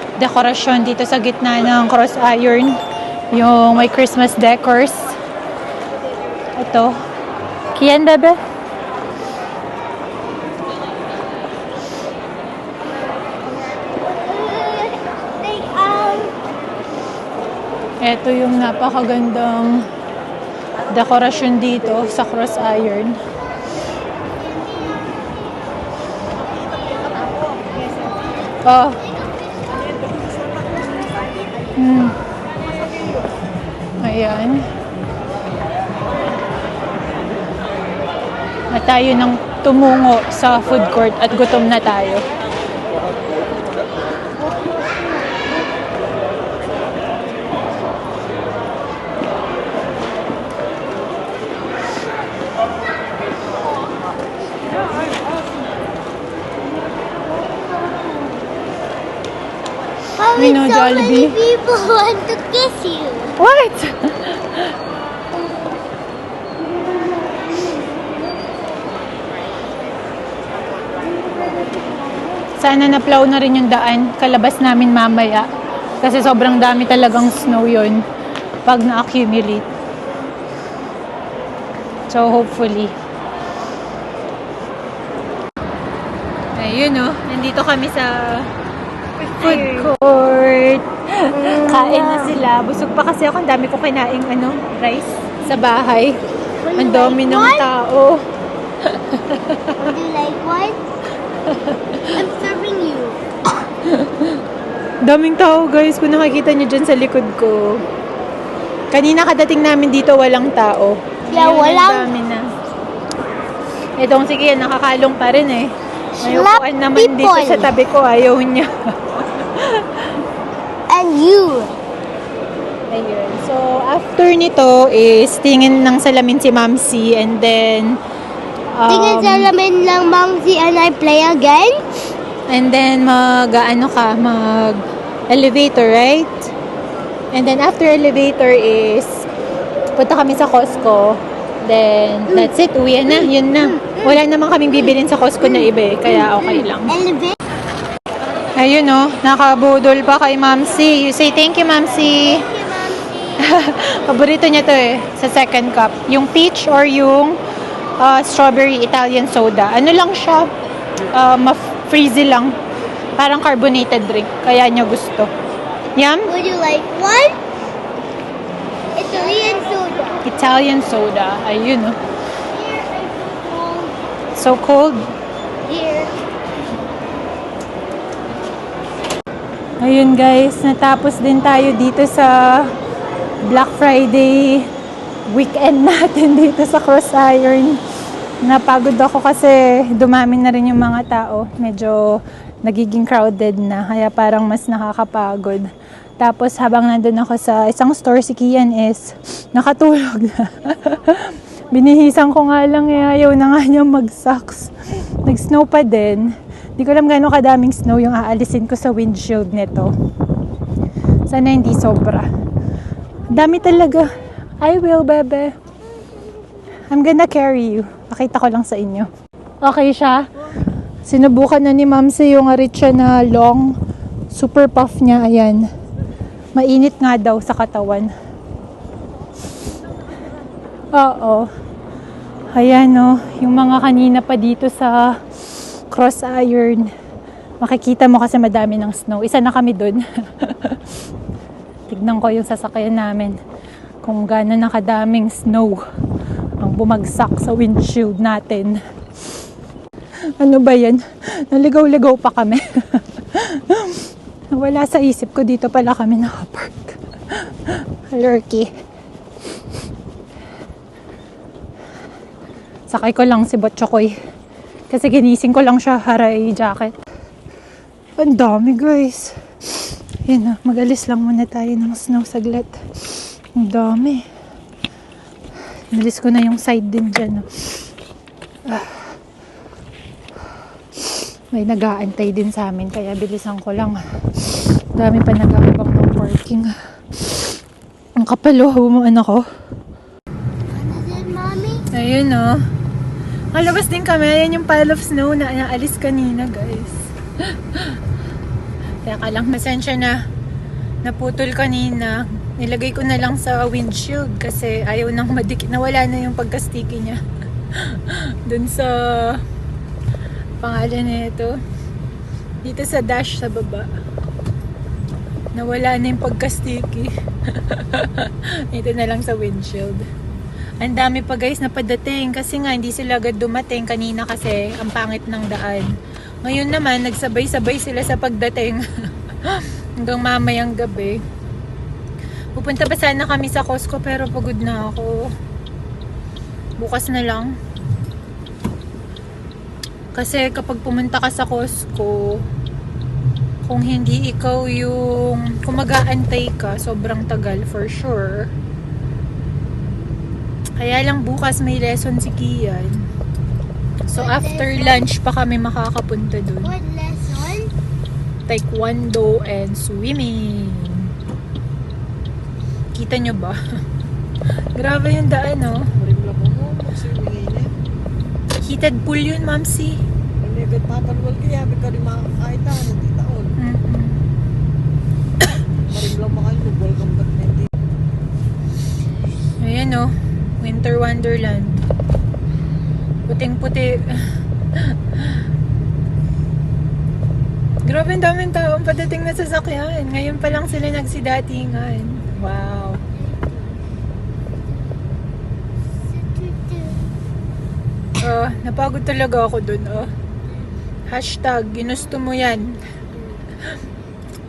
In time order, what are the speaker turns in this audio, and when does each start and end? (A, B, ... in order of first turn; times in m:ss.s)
0:00.2-0:02.8 A
0:03.3-0:05.2 A
0:06.6-0:06.9 A
0:07.8-0:08.4 A
0:13.6-0:16.3 B
0:18.0-0:19.9 A
0:20.9-0:23.2 A
0:24.4-0:25.3 B
0:26.5-0:29.9 B
0:28.6-0:29.0 A
0:30.0-0:31.3 C
0:31.8-0:32.1 A
0:34.0-0:34.6 A
0:38.7-0:42.2 A
0:44.8-0:45.1 B
1:00.2-1:03.4 B
1:00.4-1:01.4 A
1:03.4-1:04.7 A
1:12.6-1:15.5 A
1:16.0-1:18.0 A
1:18.6-1:19.7 A
1:22.1-1:22.9 A
1:26.5-1:28.5 A
1:29.2-1:29.9 B
1:29.4-1:36.2 A
1:31.3-1:32.4 B
1:36.6-1:37.7 B
1:36.8-1:38.2 A
1:38.8-1:39.8 A
1:39.7-1:40.8 B
1:41.5-1:42.2 A
1:42.1-1:43.2 B
1:43.8-1:44.4 A
1:45.0-1:47.8 A
1:48.9-1:52.4 A
1:51.2-1:52.1 B
1:54.0-2:00.2 A
1:56.2-1:57.7 B
2:00.9-2:01.7 B
2:02.9-2:08.0 A
2:08.7-2:09.5 A
2:08.9-2:11.8 B
2:12.5-2:16.5 A
2:17.3-2:19.2 A
2:20.0-2:27.0 A
2:22.3-2:22.5 B
2:23.0-2:24.2 B
2:25.4-2:27.4 B
2:28.6-2:32.5 A
2:31.9-2:33.5 B
2:33.4-2:37.4 A
2:38.0-2:40.5 A
2:41.1-2:42.6 A
2:43.2-2:45.3 A
2:46.0-2:46.3 A
2:46.2-2:47.4 B
2:48.9-2:50.3 B
2:50.2-2:52.0 A
2:52.5-2:54.0 B
2:54.4-2:55.0 A
2:55.6-2:56.1 B
2:59.8-3:02.7 A
3:03.4-3:04.7 A
3:05.3-3:07.8 A
3:08.4-3:15.7 A
3:16.2-3:29.9 A
3:31.3-3:32.3 A
3:33.3-3:34.3 B
3:33.3-3:35.5 A
3:36.0-3:36.7 B
3:36.9-3:39.1 A
3:39.6-3:40.3 A
3:41.0-3:43.8 A
3:44.3-3:45.7 A
3:46.5-3:48.1 A
3:50.9-3:51.5 A
3:52.5-3:55.2 A
3:55.9-3:56.9 A
3:57.6-4:00.8 A
4:01.9-4:03.4 A
4:04.0-4:05.8 A
4:06.6-4:08.8 A
4:10.4-4:18.7 A
4:22.9-4:24.1 A
4:24.9-4:27.0 A
4:28.2-4:32.8 A
4:33.5-4:34.2 A
4:35.9-4:37.5 A
4:38.6-4:39.1 A
4:41.5-4:47.5 A
4:48.2-4:49.4 A
4:50.7-4:51.9 B
4:51.9-4:52.6 A
4:53.5-4:58.0 A
4:59.0-5:00.2 A
5:01.0-5:07.2 A
5:07.7-5:09.4 A
5:10.6-5:11.6 A
5:12.6-5:13.9 A
5:15.5-5:20.0 A
5:20.8-5:25.9 A
5:26.4-5:28.8 A
5:29.4-5:31.2 A
5:32.6-5:35.3 A
5:36.8-5:37.5 A
5:40.1-5:42.4 A
5:43.6-5:48.5 A
5:50.8-5:53.0 A
5:54.1-5:56.7 A
5:54.1-5:55.1 B
5:56.6-5:57.7 B
5:58.5-6:01.1 A
6:02.9-6:03.6 A
6:04.7-6:05.9 A
6:06.0-6:07.8 C
6:08.6-6:10.0 A
6:10.4-6:13.5 C
6:13.6-6:14.2 A
6:15.9-6:17.7 C
6:19.6-6:21.8 A
6:23.3-6:25.4 A
6:27.8-6:33.0 A
6:33.1-6:33.8 B
6:34.7-6:35.0 B
6:36.0-6:37.1 B
6:38.2-6:40.1 A
6:40.4-6:40.7 B
6:41.1-6:42.8 A
6:42.9-6:43.5 B